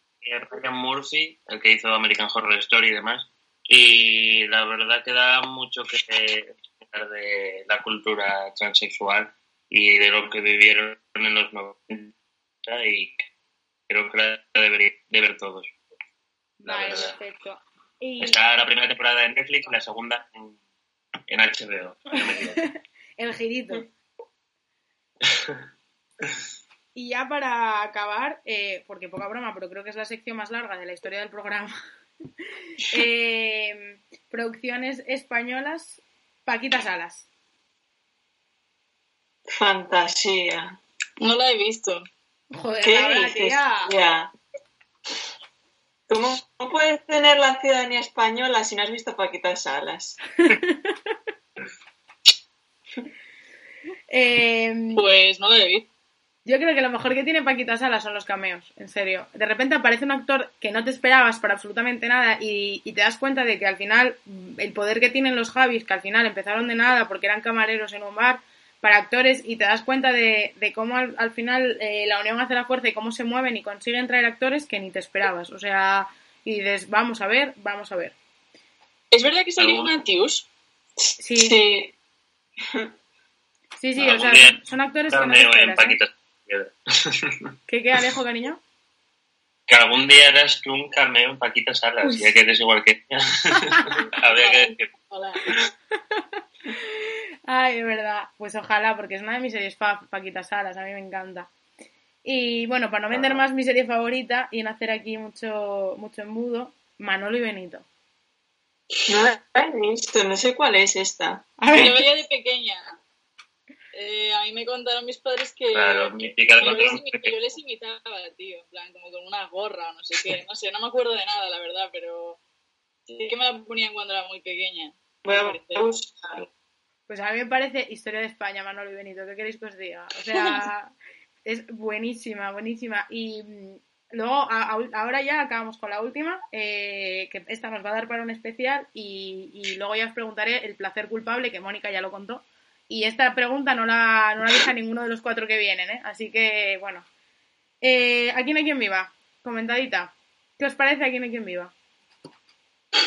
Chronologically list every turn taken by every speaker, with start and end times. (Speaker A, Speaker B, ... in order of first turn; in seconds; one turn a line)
Speaker A: 0.2-13.3
Speaker A: 13.9-15.7
Speaker B: 16.6-18.4
Speaker A: 16.6-17.2
Speaker A: 18.2-20.6
Speaker A: 21.3-22.7
Speaker B: 23.2-23.9
Speaker A: 25.3-25.6
Speaker B: 26.9-31.8
Speaker B: 32.9-37.3
Speaker C: 39.5-40.8
Speaker D: 41.2-42.1
Speaker B: 42.5-43.9
Speaker C: 42.8-44.3
Speaker C: 46.1-50.2
Speaker B: 50.5-50.9
Speaker B: 54.1-55.0
Speaker D: 55.0-55.9
Speaker B: 56.5-78.2
Speaker D: 79.1-80.5
Speaker A: 79.6-80.0
Speaker C: 81.0-81.9
Speaker B: 81.2-81.6
Speaker C: 82.7-82.9
Speaker B: 83.8-86.0
Speaker A: 84.0-87.5
Speaker B: 87.7-88.6
Speaker A: 89.7-94.9
Speaker D: 94.1-95.5
Speaker B: 97.5-101.5
Speaker B: 102.2-107.9
Speaker A: 103.1-103.4
Speaker C: 109.1-111.5
Speaker B: 111.6-112.0
Speaker D: 111.7-113.0
Speaker D: 113.9-122.4
Speaker A: 115.7-117.3
Speaker D: 123.1-125.8
Speaker C: 125.2-126.5
Speaker B: 127.1-130.9
Speaker B: 131.4-147.1
Speaker B: 147.8-151.7